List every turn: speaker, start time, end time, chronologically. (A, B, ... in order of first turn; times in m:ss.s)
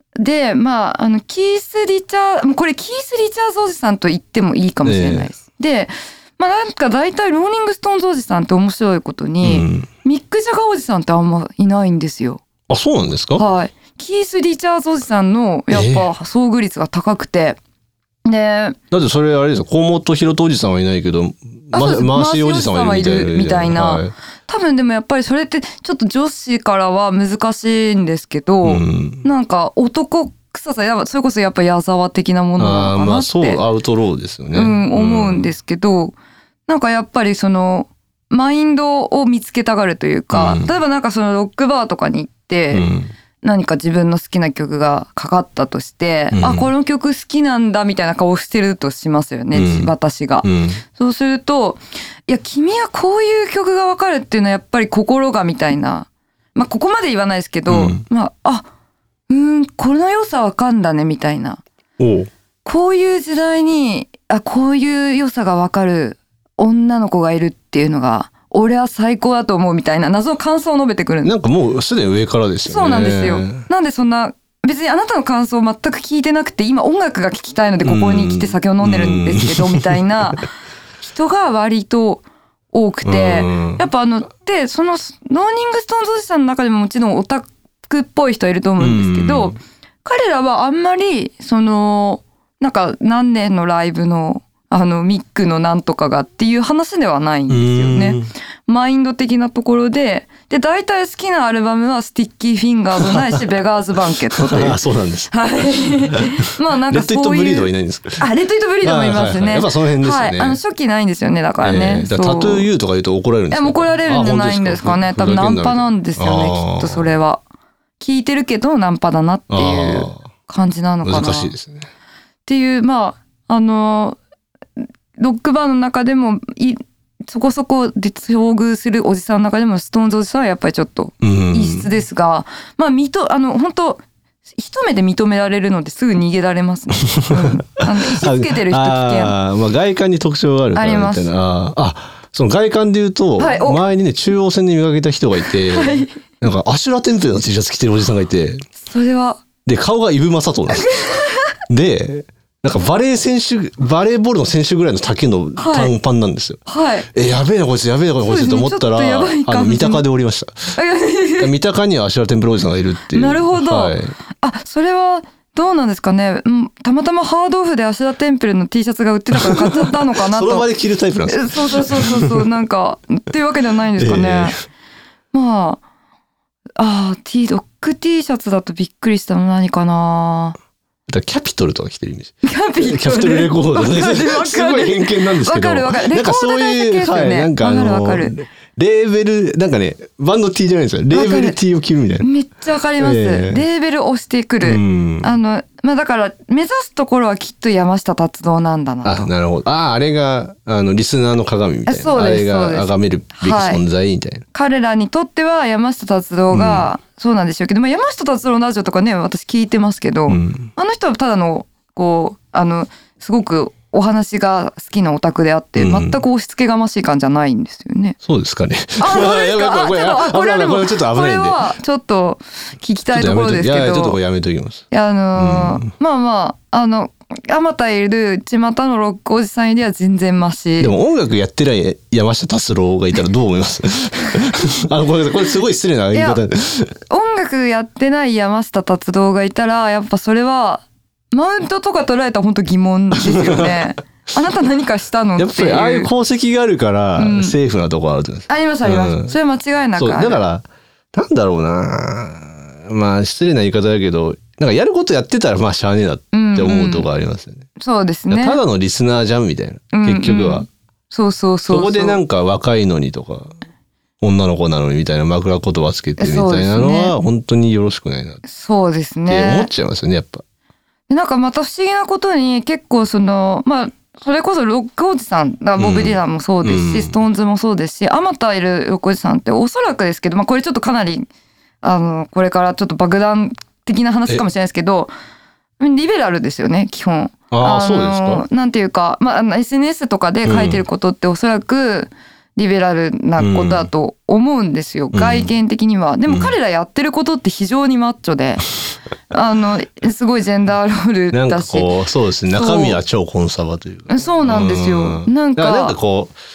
0:00.2-0:12.4 A
0:04.8-0:05.3 B
0:09.4-0:09.9 B
0:12.7-0:13.4 B
0:13.4-0:17.6 A
0:15.7-0:16.1 B
0:18.3-0:18.8 A
0:18.9-0:24.1 B
0:21.7-0:33.6 A
0:28.6-0:29.2 B
0:32.6-0:35.5 B
0:34.5-0:36.2 A
0:36.7-0:42.9 A
0:40.3-0:40.7 B
0:42.7-0:43.1 B
0:43.4-0:58.7 A
0:46.3-0:46.7 B
0:49.5-0:49.9 B
0:50.4-0:50.8 B
0:57.7-0:58.0 B
0:59.3-1:01.6 A
1:02.0-1:02.3 B
1:02.6-1:11.3 A
1:11.2-1:13.6 B
1:12.7-1:20.5 A
1:17.8-1:20.0 B
1:21.0-1:44.8 A
1:23.0-1:23.8 B
1:28.8-1:29.6 B
1:37.5-1:38.3 B
1:43.0-1:43.4 B
1:44.4-1:45.3 B
1:45.3-1:52.7 A
1:45.9-1:48.2 B
1:48.8-1:50.6 B
1:51.6-1:57.1 B
1:53.5-1:57.4 A
1:58.0-2:01.5 A
1:59.5-2:00.2 B
2:01.0-2:01.9 B
2:02.5-2:04.2 A
2:05.2-2:14.0 A
2:11.2-2:11.9 B
2:14.6-2:19.4 A
2:17.1-2:28.6 B
2:20.8-2:21.3 A
2:23.4-2:23.8 A
2:25.7-2:26.2 A
2:28.8-2:29.4 A
2:29.6-2:31.0 B
2:30.7-2:31.5 A
2:31.7-2:36.6 B
2:35.6-2:35.9 A
2:36.7-2:37.1 A
2:37.1-2:40.8 B
2:38.2-2:40.0 A
2:40.8-2:41.5 A
2:41.4-2:44.2 B
2:43.1-2:50.7 A
2:49.3-2:52.5 B
2:51.3-2:54.6 A
2:54.0-2:54.5 B
2:55.3-2:55.8 A
2:56.8-3:00.6 A
3:01.1-3:12.3 B
3:02.4-3:08.3 A
3:11.1-3:11.6 A
3:12.2-3:19.3 A
3:13.0-3:13.6 B
3:14.6-3:15.3 B
3:19.0-3:24.4 B
3:21.9-3:23.8 A
3:24.5-3:38.2 A
3:26.5-3:26.9 B
3:30.3-3:30.7 B
3:35.8-3:36.2 B
3:38.2-3:41.6 B
3:39.0-3:44.2 A
3:43.1-3:44.8 B
3:44.9-3:50.9 A
3:45.4-3:45.9 B
3:50.8-3:56.9 B
3:56.1-3:56.4 A
3:57.1-4:06.1 A
4:03.2-4:03.8 B
4:05.4-4:09.4 B
4:07.2-4:07.6 A
4:08.5-4:10.4 A
4:10.0-4:17.7 B
4:16.3-4:17.1 A
4:17.8-4:18.6 A
4:18.3-4:20.7 B
4:19.9-4:22.2 A
4:21.7-4:23.5 B
4:24.2-4:28.4 B
4:26.2-4:27.1 A
4:28.5-4:29.7 A
4:29.3-4:30.4 B
4:31.1-4:41.3 A
4:35.8-4:37.1 B
4:41.8-4:45.1 A
4:45.8-4:58.7 A
4:47.5-4:48.4 B
4:50.4-4:50.8 B
4:53.4-4:53.9 B
4:55.1-4:55.5 B
4:56.3-4:56.5 B
4:59.3-5:01.9 A
5:01.3-5:06.4 B
5:02.5-5:03.0 A
5:04.1-5:06.0 A